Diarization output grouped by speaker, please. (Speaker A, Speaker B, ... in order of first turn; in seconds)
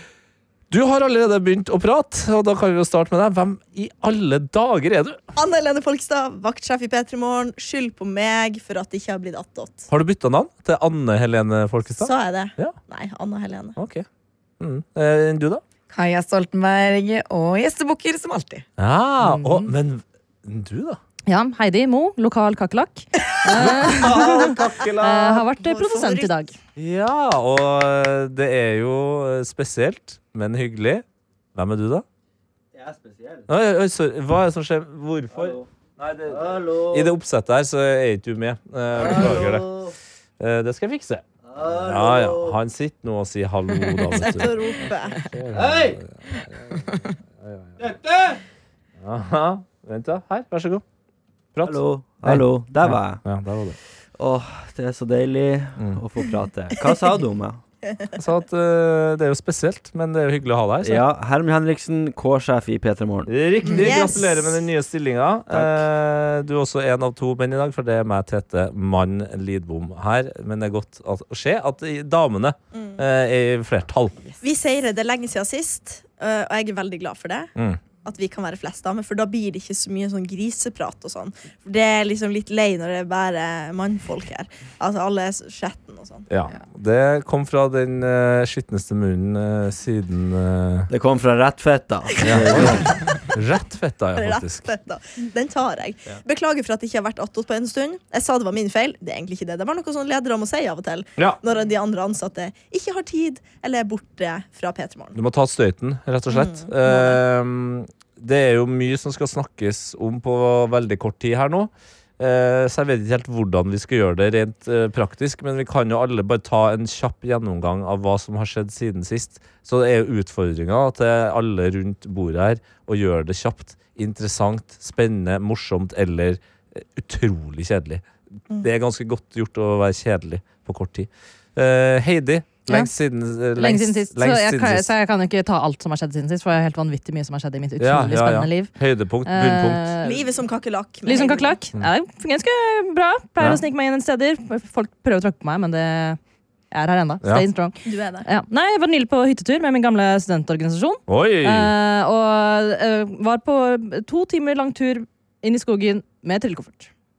Speaker A: 0.7-5.2, 9.9-12.8, 13.8-14.1, 14.6-15.6, 18.8-21.0, 23.5-25.5, 26.8-32.0, 33.5-39.7, 40.4-47.8, 49.0-50.8, 51.5-53.8, 58.2-61.0, 63.3-74.2, 77.6-77.8, 86.3-90.9, 92.2-94.7, 105.2-134.9, 137.8-139.9, 151.1-151.7
Speaker B: 5.4-9.9, 12.0-13.8, 25.8-26.3, 44.1-45.3, 63.7-64.6, 72.7-73.0, 74.4-77.5, 78.0-86.3, 94.2-105.2, 106.3-107.2, 140.0-141.6, 147.8-148.3
Speaker C: 15.9-18.7, 19.2-19.7
Speaker D: 21.3-26.6, 133.6-138.7, 139.2-140.3, 141.1-146.2, 146.7-156.9
Speaker E: 32.7-33.5, 35.3-35.7, 36.3-37.1, 39.0-39.9, 41.4-42.6, 45.5-46.0, 47.8-48.4, 51.6-53.2, 54.2-57.6, 60.8-63.3, 65.5-65.8, 90.9-92.9